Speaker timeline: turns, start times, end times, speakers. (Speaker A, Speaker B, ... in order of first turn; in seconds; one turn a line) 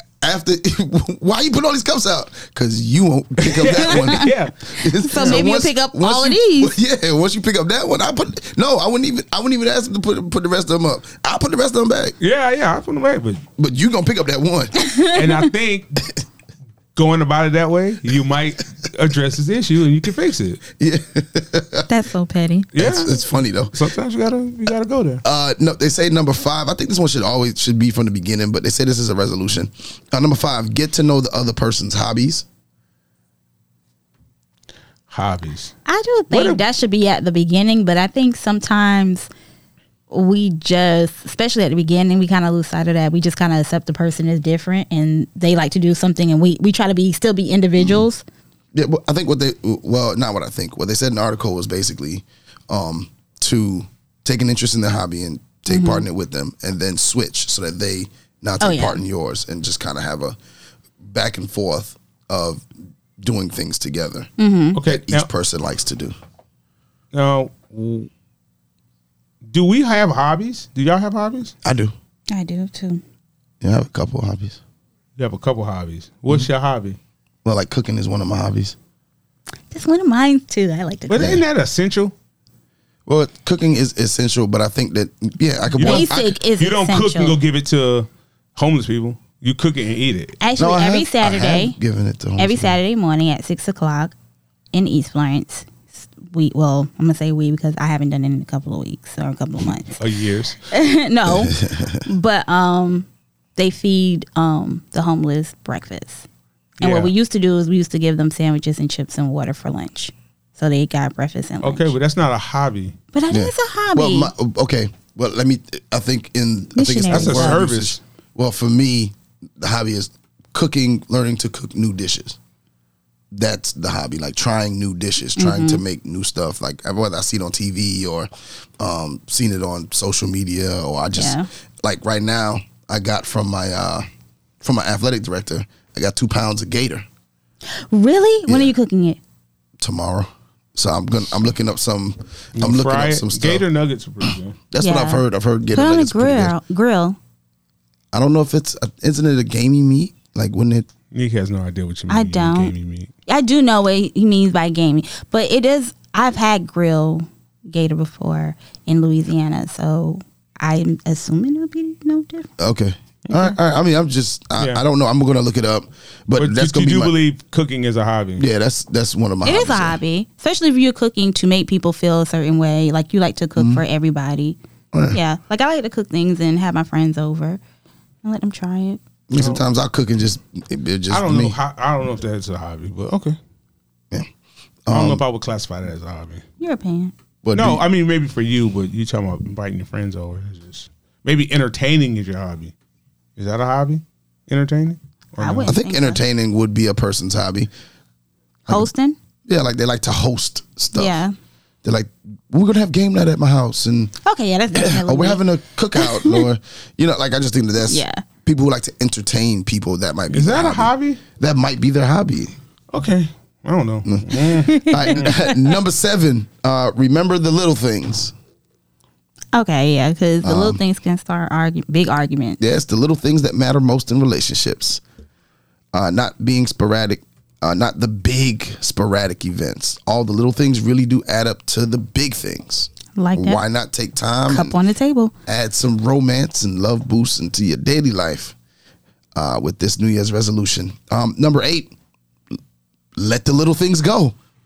Speaker A: 0.2-12.2
Speaker B: 3.4-5.5
Speaker C: 3.9-4.2
Speaker C: 5.0-6.7
Speaker B: 12.2-13.4
Speaker A: 13.6-14.7
Speaker C: 14.8-15.5
Speaker B: 15.1-16.2
Speaker B: 16.9-20.6
Speaker A: 20.8-21.9
Speaker C: 21.9-22.7
Speaker B: 22.7-23.1
Speaker A: 22.7-23.7
Speaker B: 23.7-25.2
Speaker A: 25.2-32.4
Speaker B: 35.1-35.7
Speaker C: 35.9-39.3
Speaker B: 36.3-36.6
Speaker C: 40.1-48.2
Speaker A: 47.8-48.0
Speaker A: 48.7-60.4
Speaker C: 55.7-56.0
Speaker C: 58.6-59.0
Speaker A: 61.0-62.6
Speaker A: 63.2-66.1
Speaker C: 64.4-64.8
Speaker B: 64.7-65.3
Speaker B: 67.1-68.1
Speaker B: 69.5-71.5
Speaker A: 71.6-71.9
Speaker C: 72.3-73.0
Speaker A: 73.6-74.6
Speaker B: 75.2-77.0
Speaker A: 77.4-78.8
Speaker C: 79.7-81.4
Speaker B: 81.1-82.1
Speaker A: 81.2-81.4
Speaker A: 83.0-86.3
Speaker B: 85.8-90.4
Speaker C: 85.8-87.4
Speaker C: 90.4-91.8
Speaker A: 90.6-92.8
Speaker C: 92.4-94.1
Speaker C: 94.7-100.0
Speaker B: 100.0-100.6
Speaker C: 100.7-106.3
Speaker A: 101.4-102.0
Speaker C: 106.8-111.9
Speaker B: 106.8-107.1
Speaker B: 111.6-113.0
Speaker C: 113.1-114.3
Speaker A: 113.3-122.4
Speaker C: 116.7-117.6
Speaker B: 117.1-118.0
Speaker A: 123.3-134.0
Speaker C: 125.4-125.8
Speaker C: 131.1-131.5
Speaker A: 134.6-137.1
Speaker C: 137.9-139.2
Speaker A: 138.5-138.7
Speaker A: 139.8-143.6
Speaker B: 142.6-144.6
Speaker A: 144.7-146.5
Speaker C: 144.8-147.2
Speaker A: 148.1-150.9
Speaker B: 151.1-153.1
Speaker C: 152.1-152.7
Speaker C: 153.3-162.5
Speaker A: 162.6-167.1
Speaker B: 163.3-163.6
Speaker B: 164.6-164.8
Speaker B: 166.4-168.4
Speaker A: 168.4-170.0
Speaker C: 169.4-174.6
Speaker A: 173.6-173.8
Speaker A: 174.9-175.2
Speaker C: 175.1-177.6
Speaker C: 178.2-179.0
Speaker A: 179.3-181.6
Speaker B: 179.3-179.6
Speaker B: 181.1-183.4
Speaker A: 184.8-185.2
Speaker B: 184.9-186.4
Speaker C: 186.6-187.1
Speaker A: 187.4-187.8
Speaker B: 187.5-192.7
Speaker B: 193.4-195.8
Speaker C: 195.4-196.2
Speaker A: 195.7-197.7
Speaker C: 198.7-199.2
Speaker A: 199.4-201.2
Speaker C: 200.9-201.3
Speaker A: 201.8-204.1
Speaker C: 204.2-205.4
Speaker A: 204.7-212.6
Speaker C: 205.9-206.4
Speaker C: 207.9-208.2
Speaker B: 210.3-211.2
Speaker B: 212.9-215.3
Speaker A: 214.0-218.3
Speaker C: 214.6-215.8
Speaker C: 219.5-222.6
Speaker A: 220.4-220.8
Speaker A: 222.6-225.0
Speaker A: 225.9-234.8
Speaker C: 233.1-233.6
Speaker C: 234.5-235.3
Speaker A: 235.5-238.5
Speaker A: 239.3-241.9
Speaker A: 243.2-244.3